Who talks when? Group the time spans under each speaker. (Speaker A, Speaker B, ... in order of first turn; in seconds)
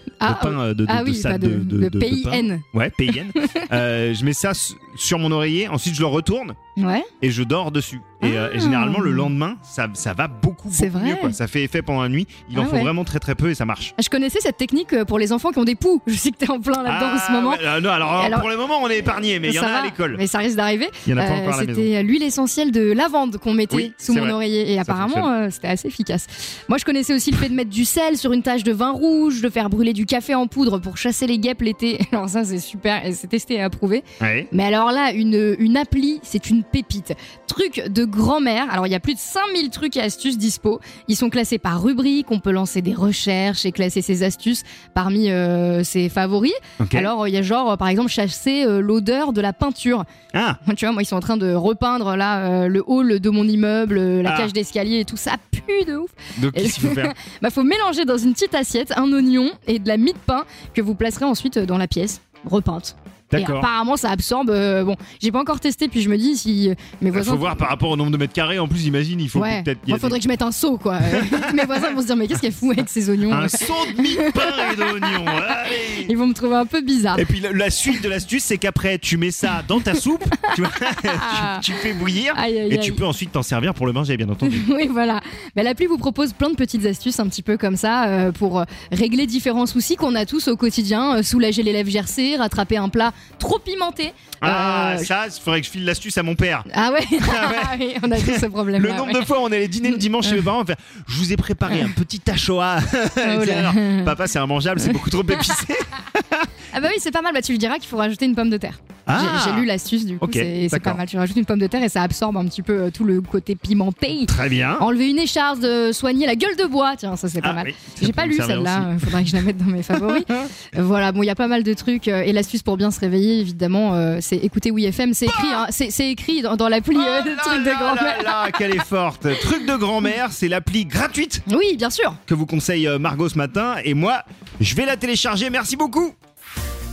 Speaker A: 0.2-2.6, 3.3-3.6, 6.8-7.1, 8.2-9.3, 10.7-11.3, 12.5-12.9, 14.0-18.5, 19.4-50.0, 50.6-67.7, 69.3-77.2, 81.1-81.7, 82.3-83.0, 84.4-95.1, 96.7-99.3, 99.8-100.4, 103.2-104.1, 104.8-105.6, 106.7-128.8, 129.4-129.6, 131.5-132.2
Speaker B: 0.2-6.6, 7.2-13.9, 16.8-20.2, 21.1-21.9, 23.7-25.3, 34.2-34.5, 46.8-47.1, 50.3-50.6, 54.2-54.5, 56.4-57.1, 63.3-63.7, 67.1-70.2, 71.0-71.9, 73.3-76.1, 77.1-84.7, 94.4-106.5, 109.1-109.7, 110.2-111.0, 114.2-114.8, 117.4-120.5, 125.2-125.6, 126.9-131.4, 132.3-136.1